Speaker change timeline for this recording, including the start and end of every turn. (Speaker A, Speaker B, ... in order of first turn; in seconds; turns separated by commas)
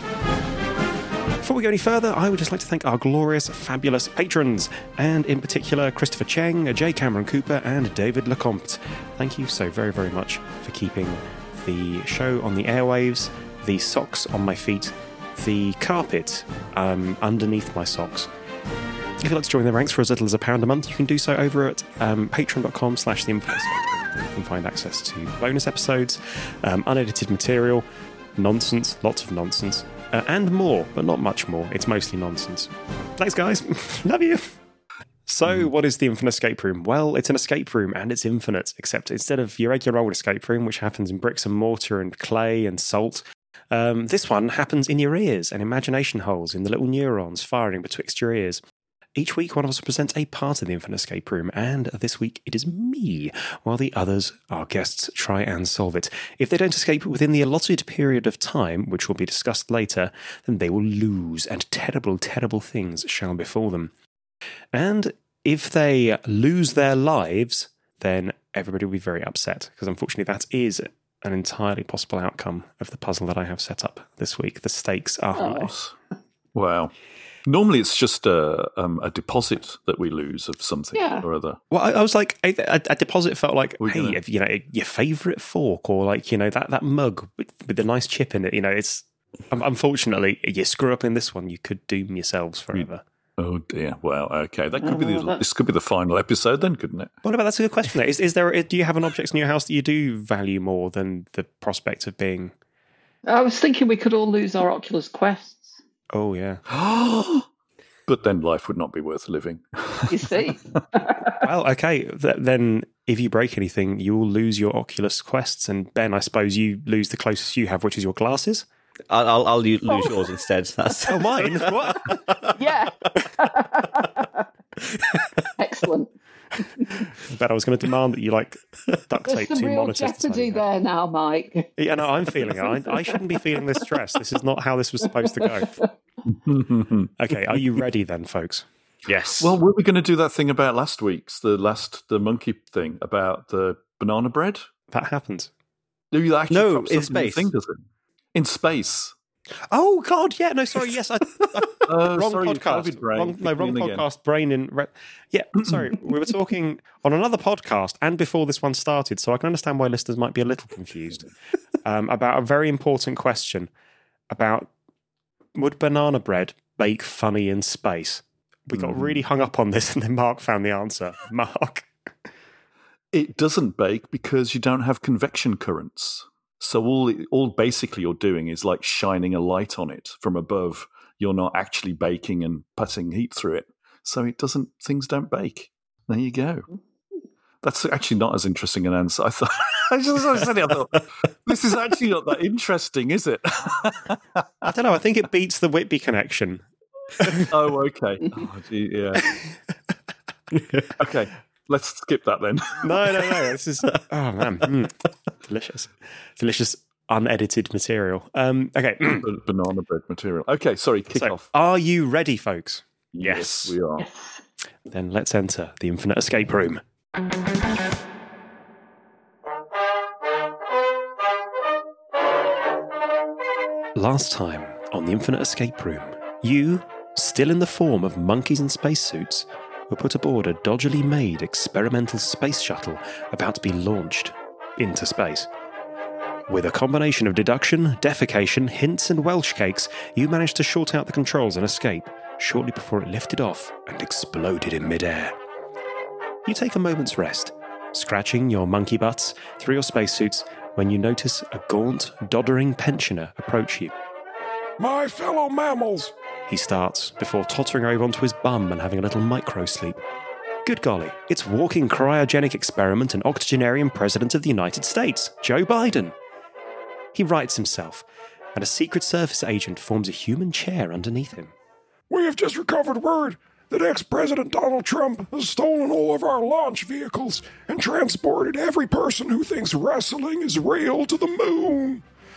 Speaker A: 1.4-18.3, Speaker A: 19.2-27.9, Speaker A: 28.4-34.5, Speaker A: 35.3-48.6, Speaker A: 49.2-63.9, Speaker A: 64.7-75.7, Speaker B: 75.6-75.9, Speaker B: 76.5-76.9, Speaker B: 77.5-81.6, Speaker C: 81.0-81.3, Speaker A: 81.7-93.0, Speaker B: 83.8-84.2, Speaker B: 93.4-97.1, Speaker C: 94.8-95.4, Speaker A: 97.2-102.5, Speaker C: 103.3-105.8, Speaker A: 106.1-106.6, Speaker B: 106.7-107.5, Speaker B: 108.1-110.4, Speaker C: 110.1-111.4, Speaker A: 111.4-118.7, Speaker D: 119.1-122.5, Speaker C: 119.9-120.3, Speaker A: 121.1-122.2, Speaker C: 122.5-124.5, Speaker C: 125.6-126.1, Speaker C: 126.6-127.1, Speaker A: 127.2-130.6, Speaker C: 129.3-131.7, Speaker A: 131.8-135.7, Speaker C: 132.7-132.9, Speaker C: 135.6-135.8, Speaker B: 136.3-137.1, Speaker A: 137.2-138.7, Speaker B: 139.1-144.7, Speaker D: 139.1-139.5, Speaker A: 144.9-145.5, Speaker B: 146.1-147.8, Speaker D: 146.5-147.5, Speaker B: 148.3-149.1, Speaker A: 149.7-161.3, Speaker B: 151.9-154.0, Speaker A: 161.8-163.7, Speaker A: 164.3-164.7, Speaker A: 165.6-171.9, Speaker B: 168.7-169.2, Speaker B: 173.1-186.7, Speaker B: 187.6-194.7, Speaker A: 194.6-196.6, Speaker A: 197.2-197.5, Speaker B: 197.2-199.4, Speaker B: 201.0-203.3, Speaker A: 202.8-209.3, Speaker B: 209.0-211.5, Speaker A: 211.2-213.8, Speaker B: 213.1-214.0, Speaker C: 214.0-214.4, Speaker A: 214.9-216.8, Speaker A: 224.0-235.5, Speaker A: 236.5-245.3, Speaker A: 246.4-253.9, Speaker E: 254.8-256.1, Speaker A: 256.5-260.0, Speaker A: 260.6-266.1, Speaker A: 267.1-271.5, Speaker E: 272.1-282.1